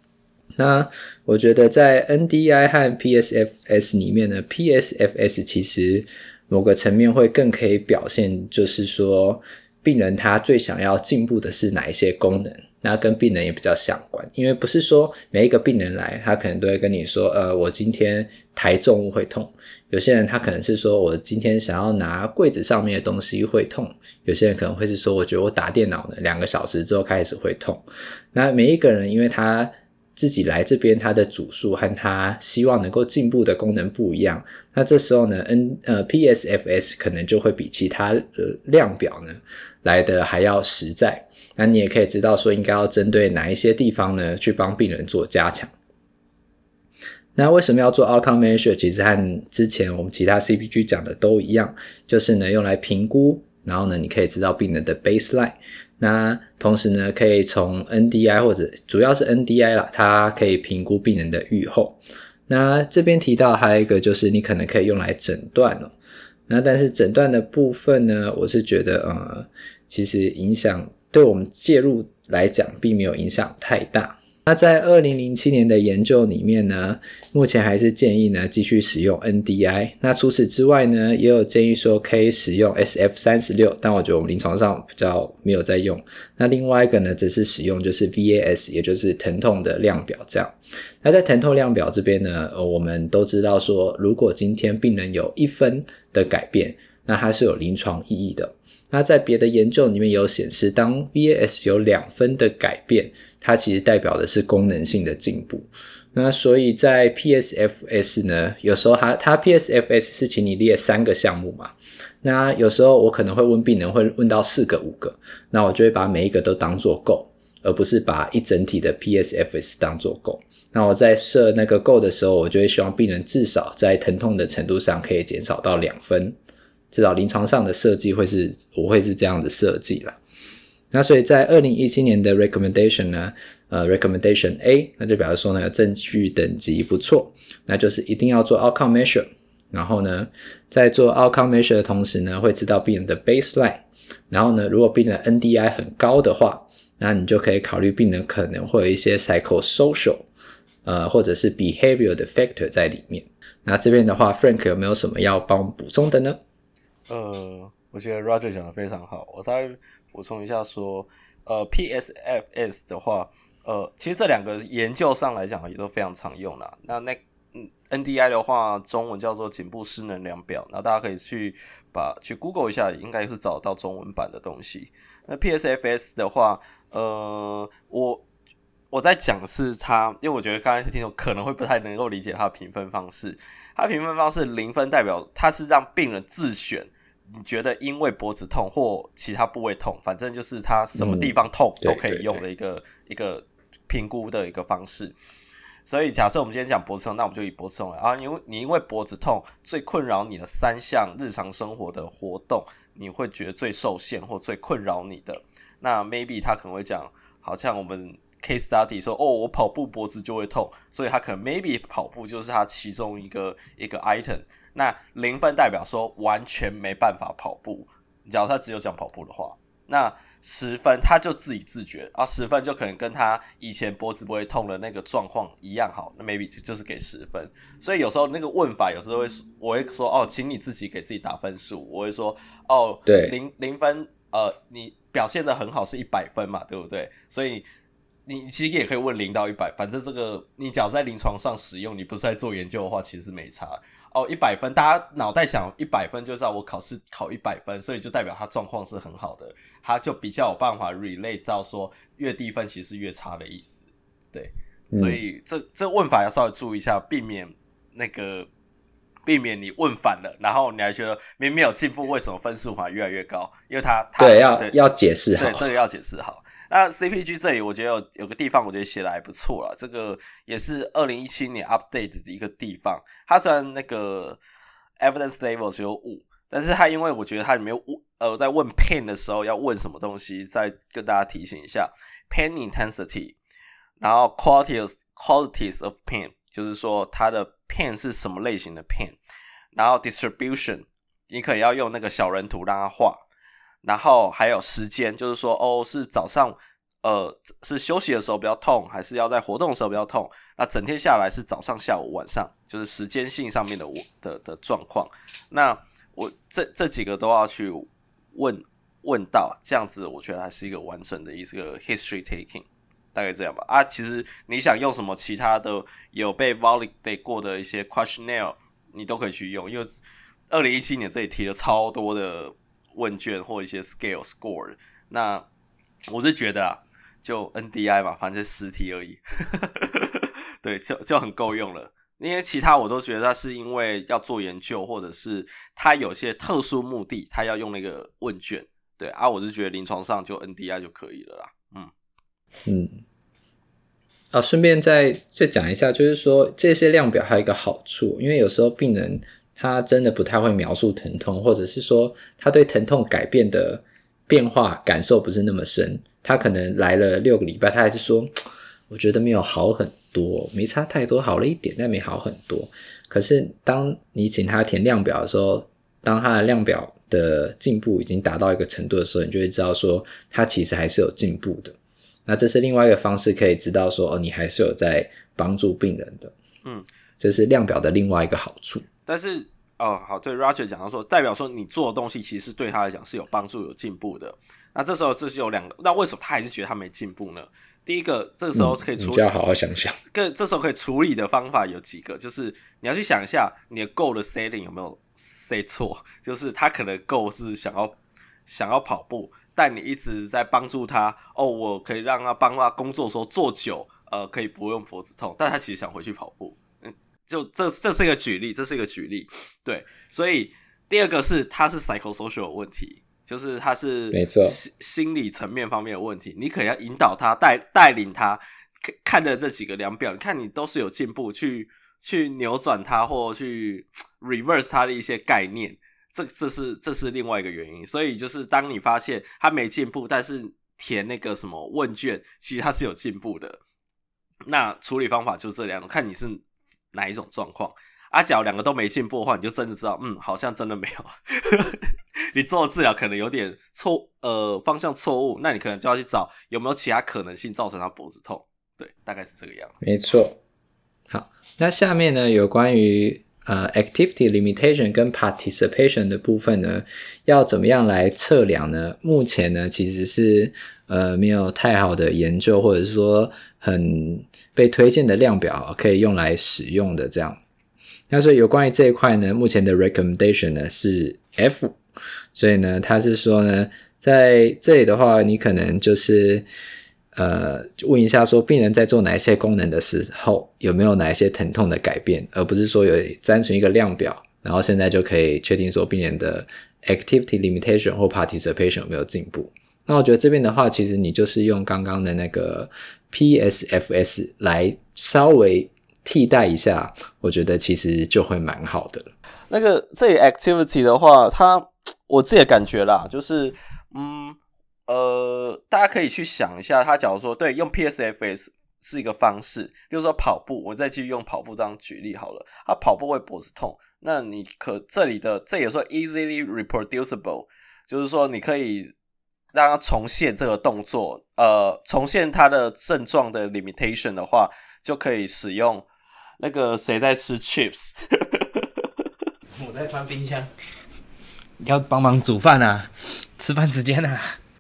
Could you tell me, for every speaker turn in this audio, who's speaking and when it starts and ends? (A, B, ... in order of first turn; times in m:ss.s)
0:00.6-0:45.7 A
0:47.4-1:05.9 A
1:06.5-2:06.4 A
2:06.9-2:10.2 A
2:10.9-2:30.3 A
2:30.8-2:36.4 A
2:37.1-2:58.2 B
2:58.9-3:15.1 B
3:11.0-3:12.4 A
3:15.9-3:57.6 B
3:53.1-3:53.4 A
3:58.2-4:18.5 B
4:14.9-4:15.2 A
4:19.2-4:24.8 B
4:24.2-4:25.6 A
4:25.4-4:34.4 B
4:35.0-4:43.4 B
4:44.0-4:49.2 B
4:49.8-4:53.2 B
4:53.8-5:25.5 B
5:26.1-5:41.9 B
5:42.6-5:43.0 A
5:44.3-5:58.3 A
5:58.9-6:16.3 A
6:17.2-6:18.8 A
6:19.1-6:29.3 B
6:28.5-6:30.0 A
6:30.1-6:38.0 B
6:38.5-7:13.6 B
6:54.1-6:54.6 A
7:14.5-7:29.8 B
7:29.8-7:30.4 A
7:31.1-7:47.4 A
7:48.1-7:51.8 A
7:52.4-7:56.5 A
7:57.1-8:19.1 A
8:19.5-8:38.9 B
8:39.5-8:45.9 B
8:46.4-8:48.6 B
8:49.6-8:50.5 C
8:51.6-8:54.4 C